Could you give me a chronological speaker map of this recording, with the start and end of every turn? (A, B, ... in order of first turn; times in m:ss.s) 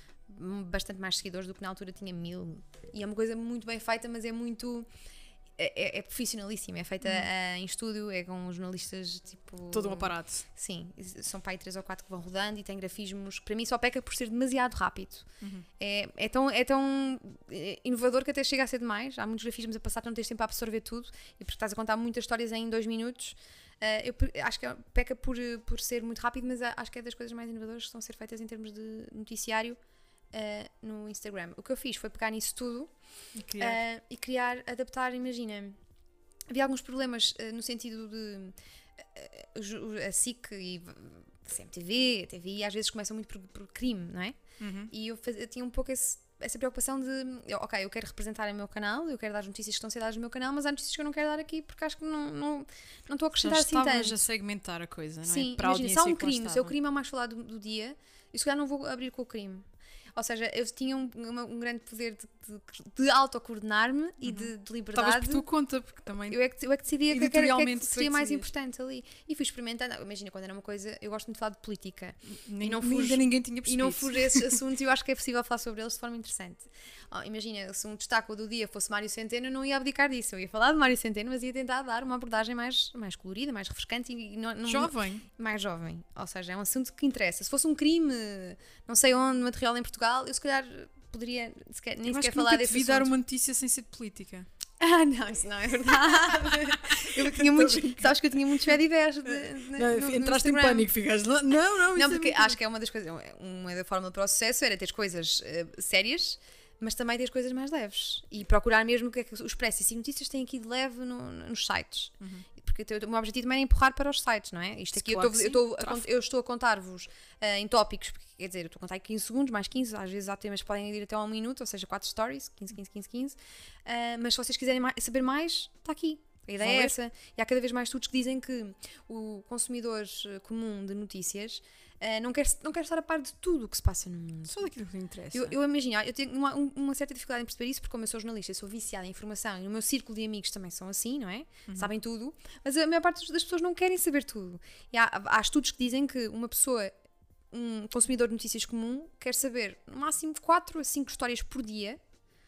0:00.2-0:04.9 A
0:05.6-0:29.8 A
0:07.0-0:07.3 B
0:09.7-0:10.4 B
0:15.4-0:15.6 B
0:30.3-0:32.9 A
0:33.3-0:33.8 B
0:33.6-0:35.8 A
0:36.5-0:54.2 A
0:44.6-0:44.9 B
0:53.4-0:56.7 B
0:55.2-0:59.6 A
1:00.2-1:05.5 A
1:04.2-1:06.4 B
1:06.3-1:33.1 A
1:07.1-1:08.4 B
1:12.2-1:14.6 B
1:24.6-1:25.2 B
1:32.1-1:34.5 B
1:34.8-1:40.9 A
1:36.2-1:38.2 B
1:39.3-1:42.6 B
1:41.9-2:14.7 A
1:52.2-1:52.4 B
1:54.9-1:56.0 B
2:06.6-2:06.9 B
2:14.5-2:15.6 B
2:15.3-2:26.9 A
2:27.5-2:32.0 A